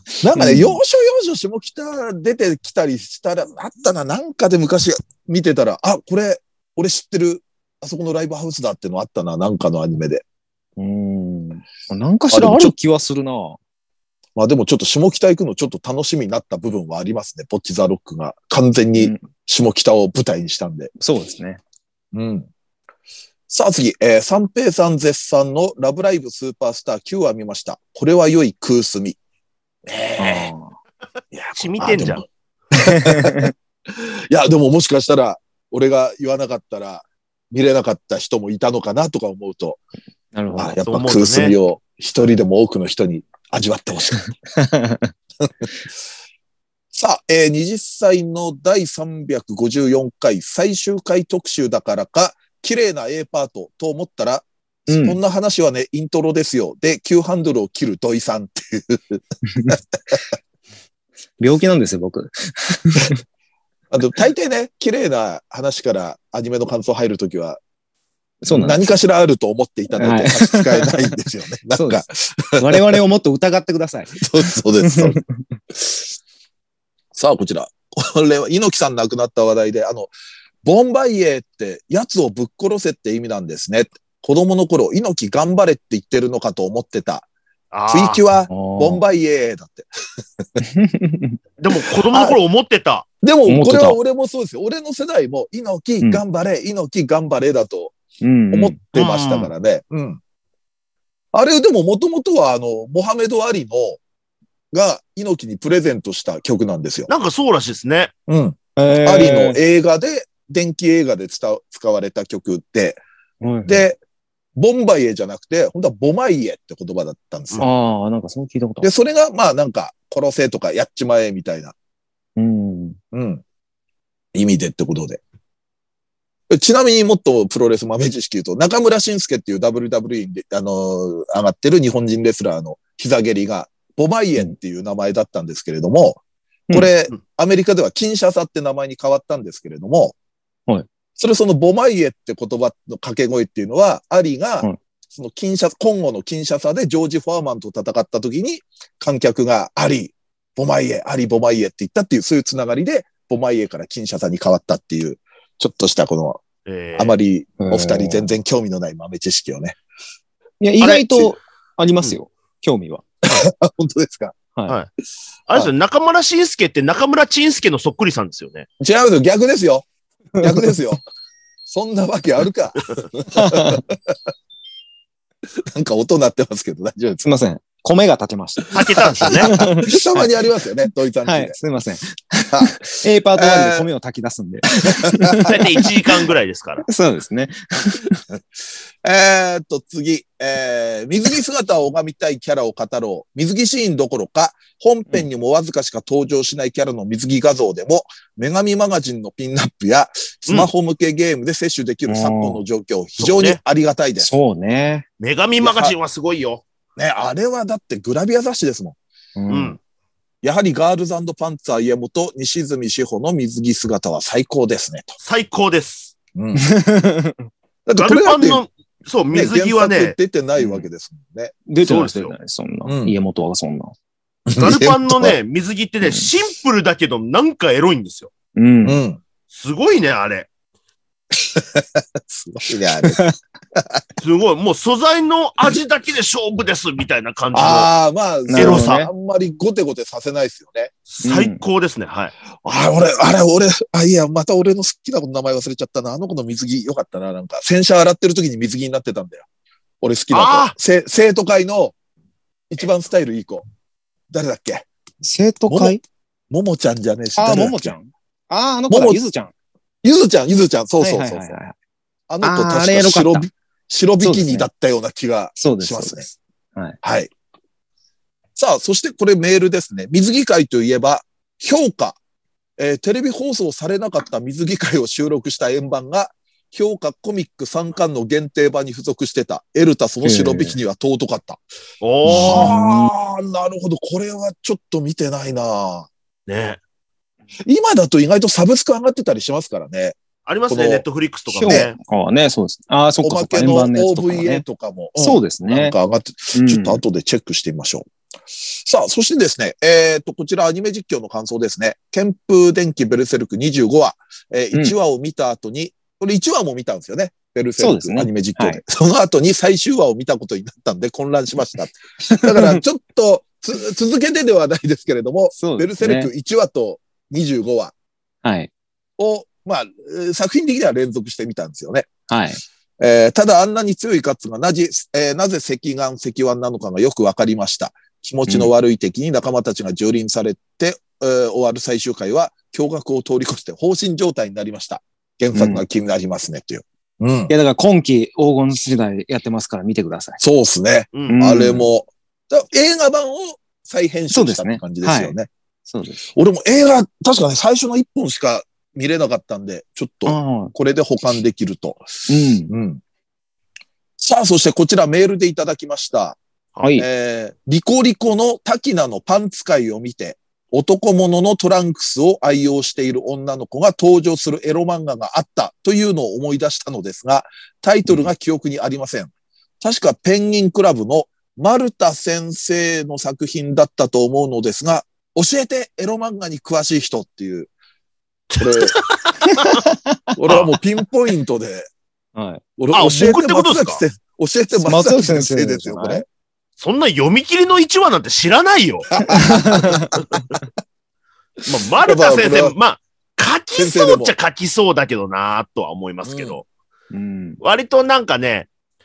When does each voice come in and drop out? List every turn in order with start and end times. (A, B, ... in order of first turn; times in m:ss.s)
0:00.2-0:10.2 A
0:00.3-0:00.8 B
0:10.8-0:13.6 B
0:12.3-0:12.7 A
0:14.4-0:20.9 A
0:18.9-0:19.2 B
0:21.0-0:21.6 B
0:22.1-0:22.5 A
0:23.5-0:29.2 A
0:29.8-0:30.5 A
0:30.2-0:30.7 B
0:31.3-0:39.8 A
0:31.6-0:32.2 C
0:32.7-0:33.5 B
0:40.3-0:40.8 B
0:40.6-0:44.2 A
0:40.9-0:41.6 C
0:44.5-0:45.1 B
0:46.9-1:00.2 A
0:54.9-0:55.2 B
1:01.4-1:03.2 B
1:03.9-1:07.6 A
1:08.4-1:08.8 B
1:08.5-1:13.0 A
1:10.0-1:11.1 B
1:11.7-1:12.0 B
1:12.6-1:15.5 B
1:14.2-1:15.2 A
1:17.1-1:20.1 A
1:20.6-1:27.3 A
1:27.7-1:28.2 C
1:27.9-1:29.9 A
1:28.5-1:29.0 B
1:30.6-1:31.4 B
1:31.6-1:33.1 C
1:32.1-1:32.4 A
1:33.2-1:38.0 A
1:33.5-1:34.0 B
1:38.2-1:38.8 B
1:38.5-1:40.2 A
1:38.9-1:39.5 C
1:41.3-1:44.0 A
1:44.7-1:47.1 A
1:47.1-1:48.1 C
1:48.3-1:53.0 A
1:48.8-1:49.6 B
1:53.4-1:53.8 B
1:53.6-1:54.0 A
1:54.6-1:57.6 A
1:57.6-1:58.9 B
1:58.8-2:01.7 A
2:02.4-2:03.0 B
2:03.1-2:03.4 A
2:04.3-2:05.2 A
2:06.5-2:20.2 A
2:21.2-2:36.4 A
2:36.6-2:37.2 C
2:37.0-2:39.8 A
2:37.6-2:38.3 B
2:40.6-2:43.0 B
2:40.8-2:41.2 C
2:43.2-2:44.3 A
2:45.5-2:48.6 C
2:48.8-2:49.8 A
2:50.4-2:50.7 B
2:50.4-2:51.0 A
2:51.7-2:54.1 A
2:53.3-2:53.8 B
2:55.7-2:57.2 A
2:57.2-3:00.3 B
2:58.7-3:01.6 A
2:58.7-2:59.5 C
3:01.2-3:05.6 B
3:02.5-3:03.9 A
3:04.8-3:05.6 A
3:05.4-3:06.8 C
3:06.8-3:08.2 B
3:09.0-3:24.3 A
3:22.0-3:22.6 B
3:23.2-3:23.6 C
3:24.2-3:25.0 B
3:25.2-3:26.6 C
3:25.6-3:26.0 A
3:27.0-3:29.0 A
3:29.4-3:29.8 B
3:29.5-3:29.8 C
3:30.4-3:35.1 A
3:35.2-3:36.1 C
3:36.3-3:36.6 A
3:36.6-3:37.4 B
3:37.8-3:38.6 A
3:38.0-3:40.2 C
3:39.3-3:41.5 A
3:40.6-3:40.9 B
3:41.7-3:43.9 B
3:41.8-3:42.3 C
3:42.8-3:43.1 A
3:44.5-3:45.4 A
3:44.6-3:48.3 C
3:48.5-3:49.0 B
3:48.8-3:49.2 A
3:49.5-3:50.5 C
3:51.3-3:53.2 A
3:53.0-3:53.4 B
3:53.7-3:54.0 A
3:54.2-3:57.9 C
3:57.5-4:00.9 A
3:58.5-3:59.1 B
3:58.5-3:59.0 C
4:01.1-4:02.3 C
4:01.2-4:01.6 B
4:02.6-4:09.5 A
4:10.0-4:11.9 A
4:10.3-4:10.7 C
4:12.7-4:13.6 A
4:14.3-4:14.9 A
4:15.2-4:16.0 B
4:15.7-4:16.0 A
4:16.5-4:17.9 A
4:17.4-4:19.5 B
4:18.9-4:19.2 A
4:20.0-4:21.6 A
4:21.0-4:21.7 B
4:22.3-4:26.3 A
4:22.4-4:23.4 B
4:24.2-4:24.6 B
4:25.6-4:27.0 B
4:27.0-4:27.3 A
4:28.6-4:32.2 A
4:32.8-4:41.6 A
4:40.2-4:40.8 B
4:42.0-4:42.7 C
4:42.2-4:43.1 B
4:42.3-4:46.1 A
4:46.5-4:46.8 C
4:47.6-4:50.2 A
4:50.4-4:51.9 C
4:50.7-4:51.0 A
4:51.5-4:54.6 B
4:51.6-4:51.9 A
4:53.2-4:58.0 A
4:55.2-4:55.9 B
4:56.5-4:57.0 B
4:58.6-5:17.9 A
5:07.8-5:08.8 B
5:12.2-5:12.8 B
5:15.5-5:16.3 B
5:18.4-5:18.7 B
5:19.2-5:22.1 A
5:22.3-5:22.6 B
5:23.0-5:37.5 A
5:35.5-5:35.8 B
5:37.5-5:40.4 B
5:40.4-5:45.5 A
5:41.1-5:41.4 C
5:41.3-5:41.8 B
5:44.3-5:45.3 B
5:45.9-5:46.2 B
5:46.3-5:52.0 A
5:50.2-5:50.7 B
5:52.3-5:52.7 B
5:52.7-5:53.0 A
5:54.2-5:56.4 A
5:56.8-5:57.1 B
5:57.0-6:17.7 A
6:18.5-6:19.8 C
6:18.6-6:18.9 A
6:19.4-6:20.3 B
6:20.4-6:21.9 A
6:20.5-6:20.7 C
6:22.3-6:22.6 B
6:22.8-6:26.2 A
6:22.9-6:24.0 C
6:24.7-6:26.2 B
6:26.8-6:29.1 C
6:29.1-6:30.1 A
6:29.3-6:30.1 B
6:31.6-6:36.6 C
6:32.0-6:32.8 A
6:33.7-6:34.4 A
6:36.2-6:36.6 A
6:37.1-6:37.6 B
6:37.6-6:38.7 C